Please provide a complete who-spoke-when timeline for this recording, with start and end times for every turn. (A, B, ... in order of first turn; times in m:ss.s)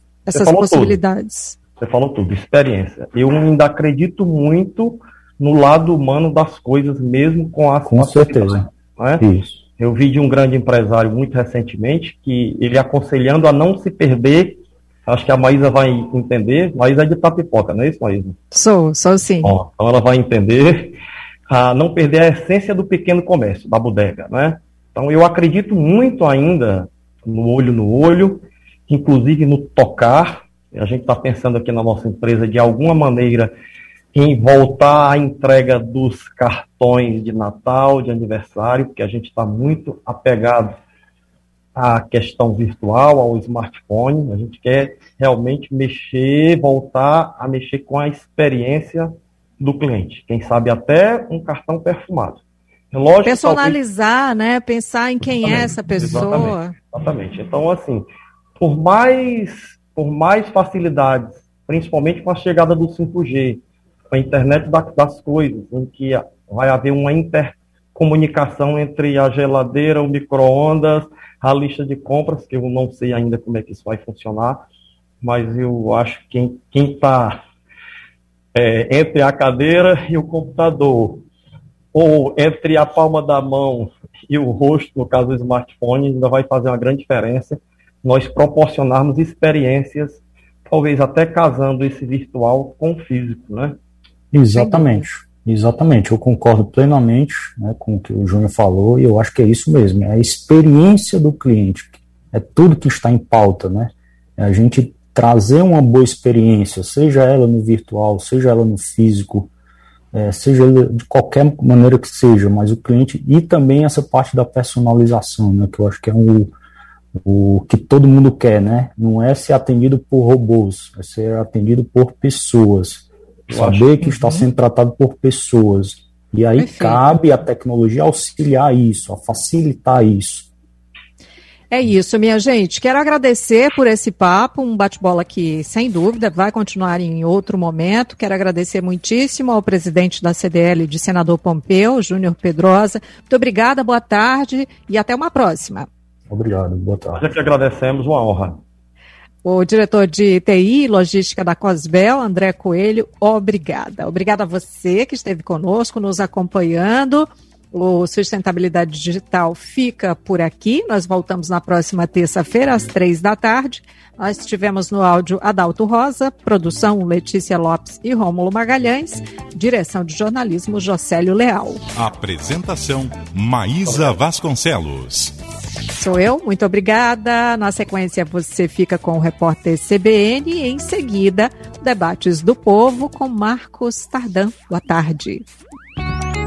0:00.3-0:01.6 A
0:00.3-0:01.0 B
0:01.8-0:09.2 B
0:07.8-0:08.7 C
0:09.2-0:09.6 C
0:09.8-0:18.4 B
0:18.5-0:19.5 A
0:19.4-0:21.0 B
0:21.5-0:33.5 B
0:34.1-0:40.7 B
0:41.7-0:52.4 B
0:52.9-0:53.8 B
0:53.2-0:56.7 A
0:55.4-0:58.0 B
0:58.6-1:14.6 B
1:15.2-1:17.4 B
1:18.5-1:21.2 B
1:21.9-1:33.8 B
1:34.3-1:49.5 C
1:34.6-1:35.0 A
1:50.1-1:56.5 C
1:57.1-2:10.5 C
2:03.5-2:03.9 B
2:04.0-2:04.4 A
2:06.6-2:07.0 A
2:11.7-2:25.9 A
2:26.3-2:27.2 C
2:27.1-2:28.6 B
2:29.4-2:51.8 A
2:51.9-2:55.3 D
2:56.0-3:05.5 A